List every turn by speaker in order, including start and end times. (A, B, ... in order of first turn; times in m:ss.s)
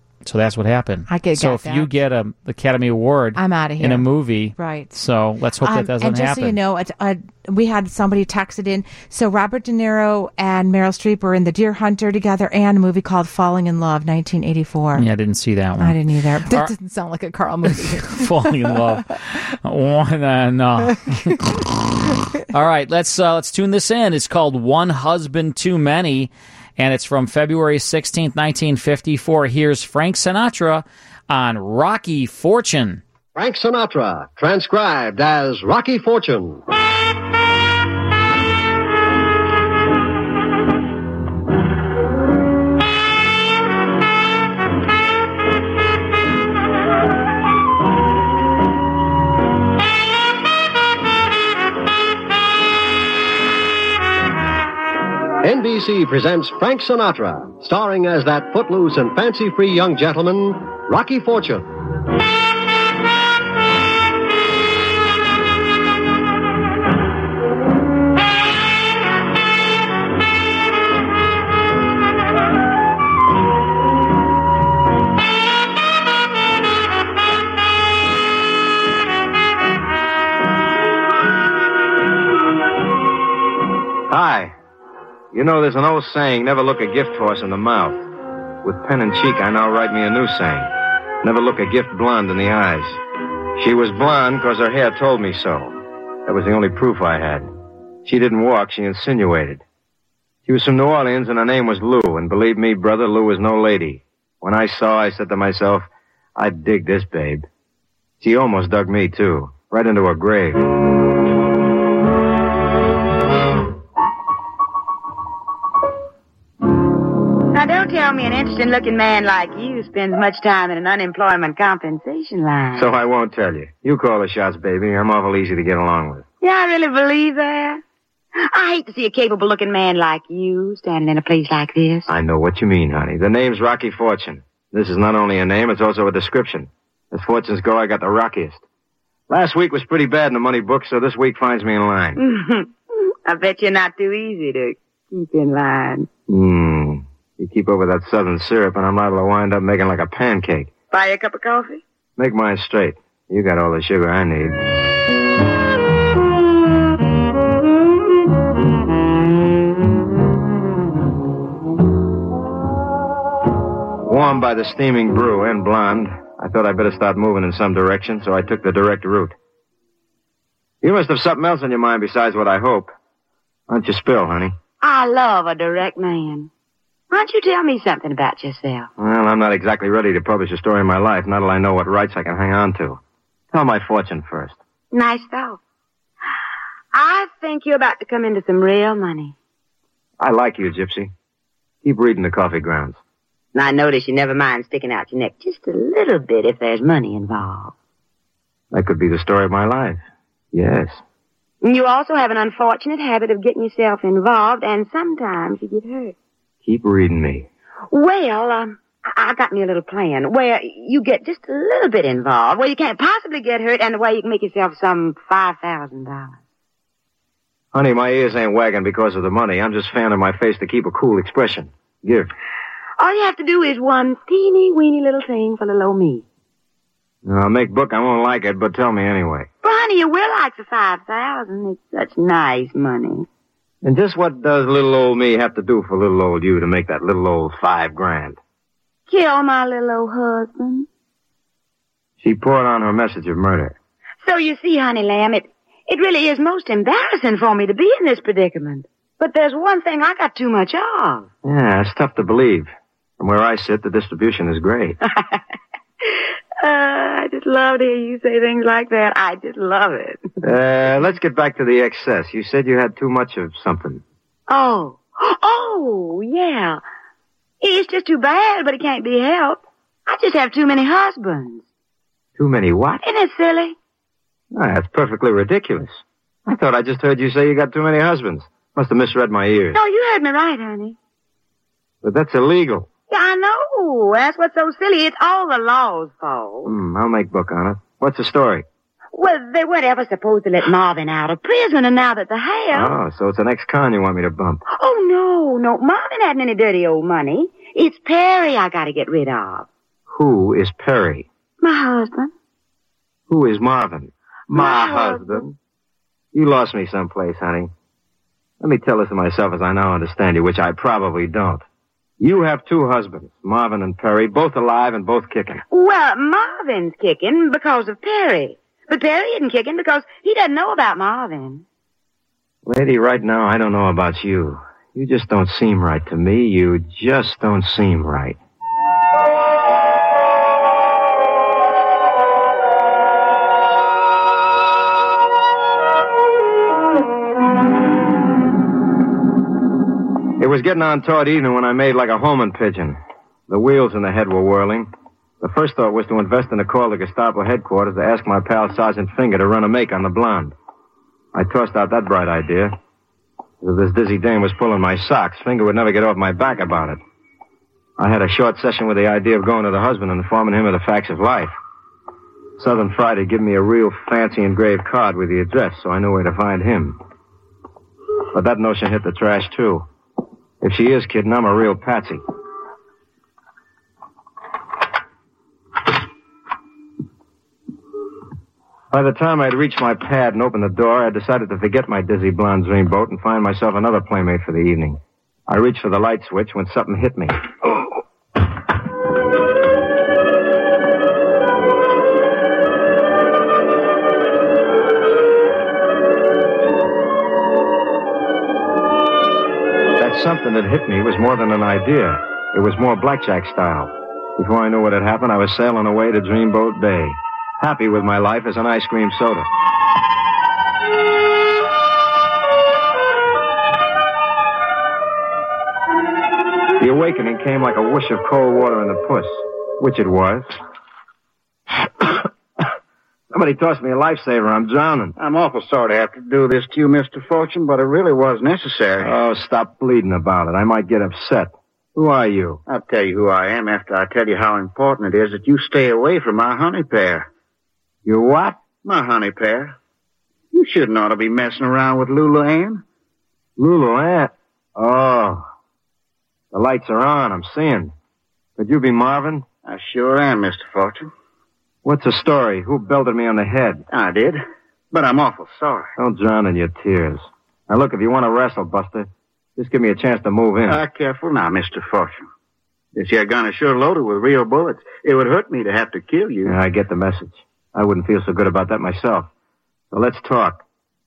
0:00.2-0:06.6 A
0:01.1-0:01.9 B
0:03.4-0:04.1 B
0:04.6-0:04.9 B
0:05.6-0:15.0 B
0:15.0-0:16.0 A
0:15.8-0:19.0 B
0:17.7-0:33.0 A
0:33.4-0:36.6 C
0:55.4-1:01.6 C
1:24.1-1:24.6 D
1:25.3-1:28.0 D
1:28.6-1:30.7 D
1:31.2-1:33.0 D
1:33.6-1:37.5 D
1:38.0-1:39.6 D
1:40.5-1:47.5 D
1:48.2-1:50.6 D
1:57.5-2:02.9 E
2:02.8-2:06.3 D
2:06.4-2:07.8 E
2:08.4-2:12.1 E
2:12.1-2:18.6 D
2:19.3-2:22.2 D
2:22.2-2:22.7 E
2:23.2-2:26.1 E
2:26.3-2:30.8 D
2:30.9-2:31.8 E
2:32.2-2:34.6 D
2:44.1-2:49.4 D
2:50.8-2:52.9 D
2:53.7-2:54.6 D
2:54.8-2:56.5 E
2:57.1-2:58.9 E
2:59.0-3:03.0 D
3:03.5-3:04.6 D
3:04.9-3:05.6 E
3:06.9-3:09.4 E
3:10.2-3:11.1 D
3:11.8-3:13.0 D
3:13.6-3:17.7 E
3:18.7-3:20.0 D
3:20.5-3:21.0 D
3:21.6-3:26.2 E
3:26.6-3:27.5 D
3:27.9-3:36.4 E
3:37.7-3:42.3 D
3:43.0-3:46.2 E
3:47.2-3:49.5 D
3:49.6-3:53.3 E
3:53.8-3:58.4 D
3:59.1-4:00.9 E
4:02.2-4:03.8 D
4:04.2-4:11.3 E
4:11.4-4:15.0 D
4:16.6-4:20.2 E
4:20.4-4:24.0 D
4:24.5-4:26.8 E
4:27.6-4:31.6 E
4:32.4-4:33.0 D
4:33.0-4:33.8 E
4:34.5-4:39.8 D
4:39.7-4:41.0 E
4:42.0-4:42.9 D
4:43.1-4:46.7 E
4:46.6-4:48.6 D
4:49.1-4:52.9 E
4:52.7-4:54.6 D
4:54.7-4:59.7 E
5:00.1-5:01.3 D
5:01.6-5:02.3 E
5:03.3-5:05.5 D
5:04.5-5:05.4 E
5:06.3-5:07.7 D
5:08.6-5:11.6 D
5:12.2-5:15.6 D
5:15.7-5:21.6 E
5:22.6-5:28.4 D
5:40.4-5:44.9 D
5:45.4-5:50.5 D
5:51.3-5:52.8 D
5:53.6-5:57.0 D
5:58.0-6:01.5 D
6:02.6-6:07.0 D
6:08.3-6:09.9 D
6:10.6-6:12.2 D
6:18.9-6:27.3 D
6:40.0-6:49.5 D
6:56.8-7:00.5 D
7:03.3-7:05.1 D
7:05.2-7:09.2 F
7:09.0-7:12.6 D
7:12.7-7:17.3 F
7:18.0-7:18.7 D
7:18.8-7:19.8 F
7:20.5-7:22.8 F
7:23.6-7:25.5 D
7:26.5-7:27.9 D
7:28.6-7:29.5 D
7:29.6-7:31.1 F
7:31.8-7:33.8 D
7:33.9-7:35.9 F
7:36.0-7:40.8 D
7:40.6-7:42.3 F
7:43.0-7:46.6 F
7:46.4-7:49.3 D
7:49.9-7:50.6 D